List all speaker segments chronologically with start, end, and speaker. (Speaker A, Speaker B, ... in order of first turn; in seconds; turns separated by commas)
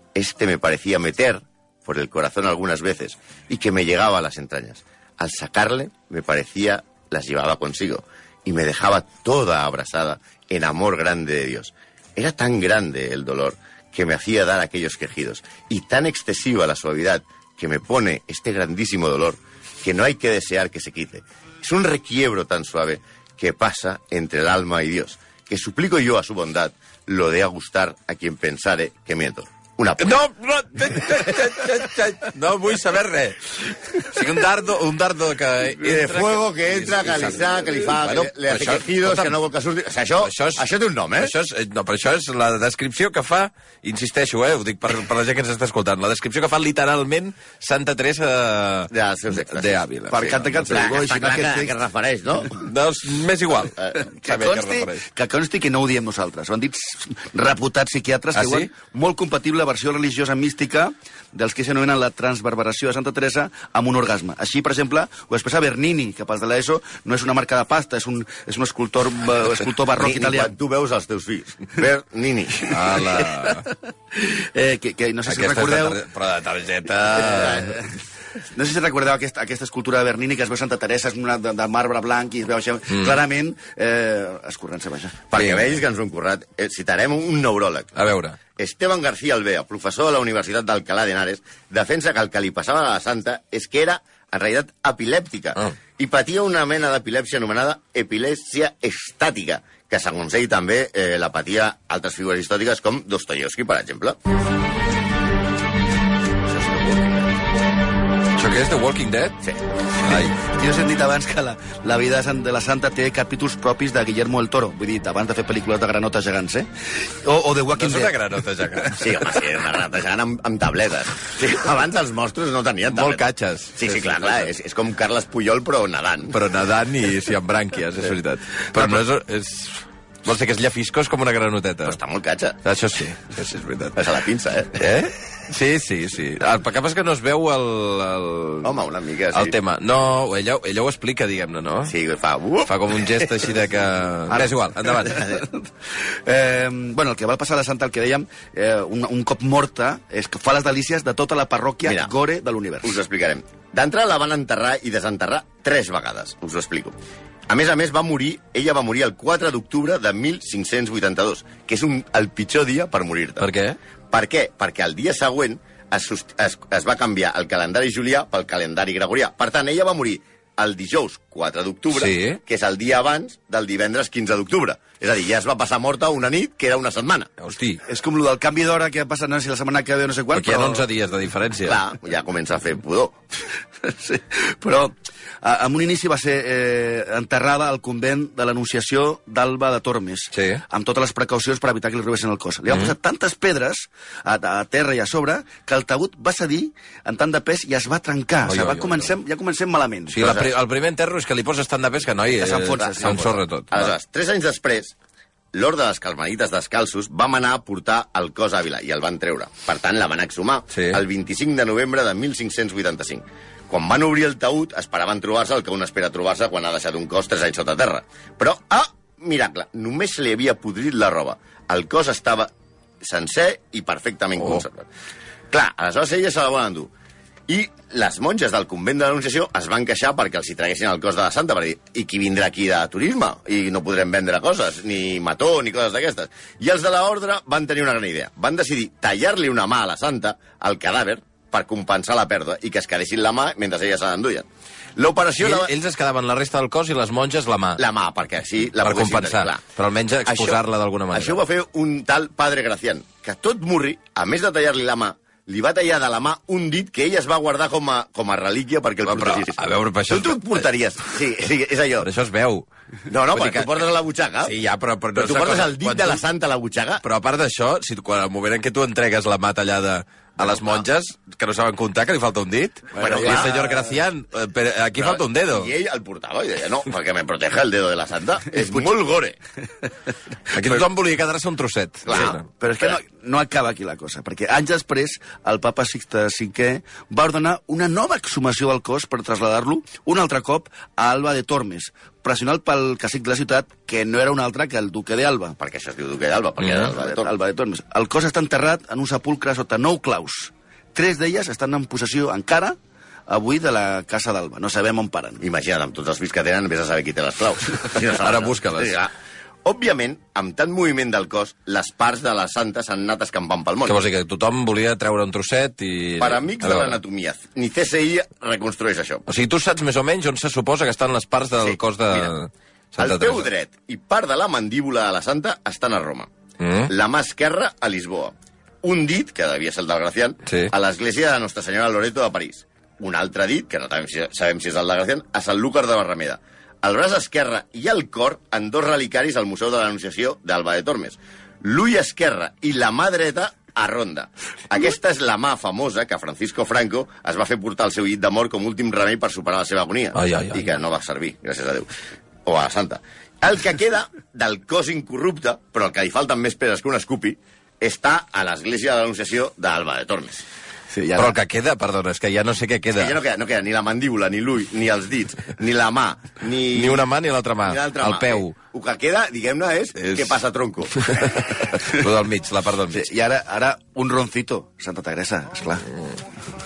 Speaker A: 0.1-30.2, Speaker B: 30.0-39.4, Speaker A: 35.8-41.3, Speaker B: 40.2-40.6, Speaker B: 41.2-50.9, Speaker A: 48.9-49.8, Speaker C: 50.1-51.8, Speaker A: 50.7-52.6, Speaker B: 52.5-55.0, Speaker C: 54.0-70.5, Speaker B: 58.3-58.7, Speaker A: 70.0-72.7, Speaker B: 72.7-73.7, Speaker C: 72.9-73.5, Speaker C: 74.1-76.0, Speaker B: 75.2-77.9, Speaker C: 77.4-77.8, Speaker C: 78.5-85.2, Speaker B: 82.9-83.2, Speaker A: 85.3-88.0, Speaker B: 85.3-85.8, Speaker B: 87.9-88.4, Speaker A: 88.5-104.2, Speaker A: 106.4-107.3, Speaker B: 108.4-109.4, Speaker B: 110.0-110.4, Speaker C: 110.5-118.2, Speaker B: 117.7-119.4, Speaker A: 118.9-126.4, Speaker B: 122.9-124.5, Speaker B: 126.3-132.0, Speaker A: 131.8-132.6, Speaker B: 132.6-134.0, Speaker A: 133.9-134.8, Speaker B: 134.8-138.8, Speaker A: 138.6-139.6, Speaker B: 139.3-141.9, Speaker A: 141.9-143.3, Speaker B: 142.7-145.2, Speaker C: 144.3-145.6, Speaker A: 145.0-145.4, Speaker C: 146.2-153.0, Speaker A: 151.8-152.1, Speaker A: 152.8-156.9, Speaker A: 157.5-163.5, Speaker B: 163.4-163.8, Speaker A: 164.1-177.3, Speaker B: 171.9-172.4, Speaker B: 177.4-177.8, Speaker C: 177.9-180.8, Speaker B: 180.3-181.8, Speaker A: 181.6-183.2, Speaker C: 183.8-200.4, Speaker B: 190.3-190.6, Speaker B: 198.4-199.1, Speaker B: 200.1-203.9, Speaker C: 202.3-203.4, Speaker A: 202.8-204.9, Speaker A: 205.5-224.9, Speaker B: 210.7-211.0, Speaker A: 225.5-226.9, Speaker A: 227.5-245.7, Speaker B: 245.4-247.8, Speaker A: 247.8-249.6, Speaker B: 248.8-251.4, Speaker A: 250.2-250.6, Speaker A: 251.1-262.1, Speaker B: 259.1-260.7, Speaker B: 262.0-262.6, Speaker A: 263.1-264.5, Speaker B: 263.3-263.9, Speaker B: 264.4-266.2, Speaker A: 265.1-267.0, Speaker B: 267.0-275.7, Speaker A: 270.4-270.9, Speaker A: 273.0-273.7, Speaker A: 274.9-279.4, Speaker B: 280.5-282.4, Speaker A: 282.1-283.0, Speaker C: 282.1-295.6, Speaker A: 295.6-297.3, Speaker B: 296.6-296.9, Speaker C: 297.0-302.8, Speaker C: 303.3-305.4, Speaker A: 305.4-309.1, Speaker B: 308.2-309.0, Speaker A: 309.6-314.0, Speaker B: 313.9-317.0, Speaker A: 316.2-319.3, Speaker B: 319.3-323.5, Speaker A: 321.6-322.3, Speaker A: 323.0-326.3, Speaker B: 326.6-326.9, Speaker A: 326.9-351.9, Speaker B: 330.4-330.7, Speaker B: 350.1-350.6, Speaker A: 352.4-360.4, Speaker C: 360.9-361.4, Speaker B: 361.1-363.2, Speaker A: 362.9-367.1, Speaker B: 366.7-368.6, Speaker A: 367.6-370.9, Speaker B: 370.0-370.4, Speaker B: 371.0-373.1, Speaker C: 372.9-375.9